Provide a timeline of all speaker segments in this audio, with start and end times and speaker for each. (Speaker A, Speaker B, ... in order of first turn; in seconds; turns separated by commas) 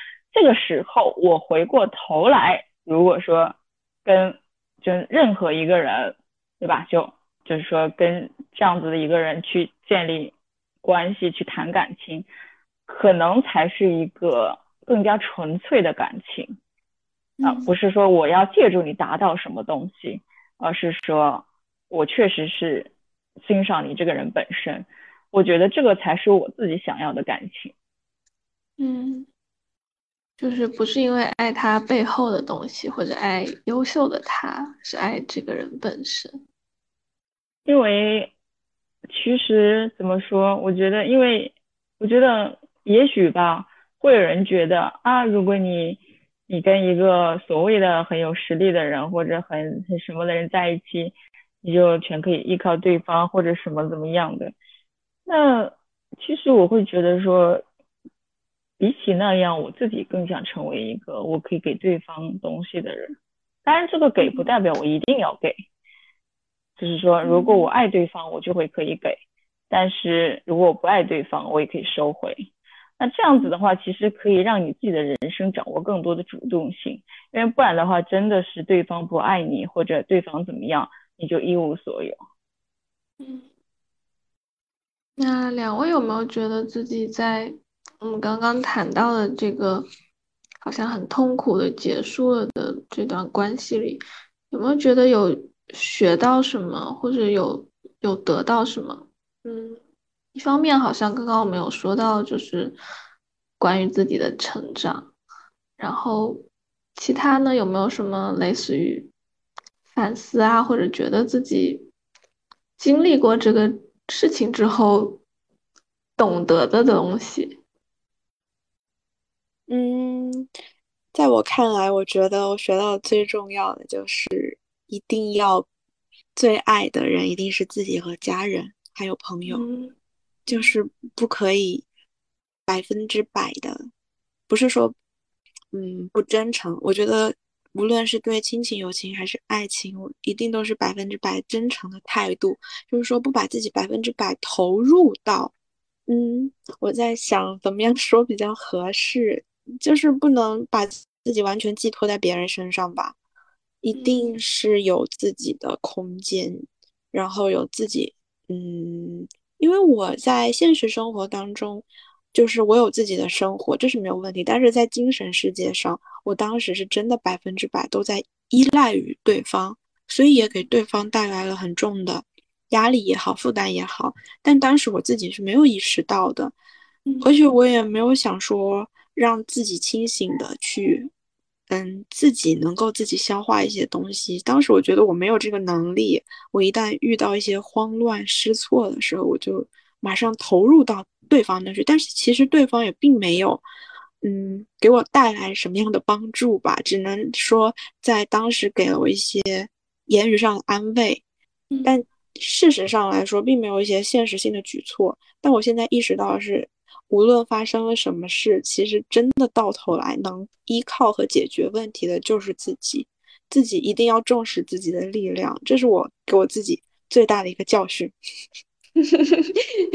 Speaker A: 0.3-12.3, Speaker A: 12.9-16.6, Speaker B: 17.4-17.7, Speaker A: 17.4-27.7, Speaker B: 28.8-29.3, Speaker B: 30.4-36.3, Speaker A: 37.7-38.3, Speaker A: 39.1-54.5, Speaker A: 55.3-57.6, Speaker A: 58.8-65.6, Speaker B: 64.2-64.5, Speaker A: 66.8-69.2, Speaker B: 67.2-67.7, Speaker A: 69.7-82.2, Speaker B: 83.2-83.5, Speaker B: 85.2-89.9, Speaker B: 90.6-99.8, Speaker B: 100.3-102.8, Speaker B: 103.6-105.1, Speaker B: 105.8-106.4, Speaker B: 107.0-109.1, Speaker B: 109.9-111.9, Speaker B: 112.8-115.2, Speaker B: 116.2-117.6, Speaker C: 119.7-120.5, Speaker C: 121.1-125.7, Speaker C: 126.4-129.7, Speaker B: 129.4-129.9, Speaker C: 130.5-131.8, Speaker B: 130.5-130.8, Speaker C: 132.7-133.9, Speaker C: 134.5-134.9, Speaker C: 135.7-145.5, Speaker C: 146.1-153.2, Speaker C: 153.8-176.6, Speaker B: 153.9-154.4, Speaker B: 170.4-170.7, Speaker C: 177.2-181.1, Speaker C: 181.7-193.6, Speaker C: 194.2-201.2, Speaker B: 201.7-202.0, Speaker C: 201.8-218.2, Speaker B: 219.0-219.6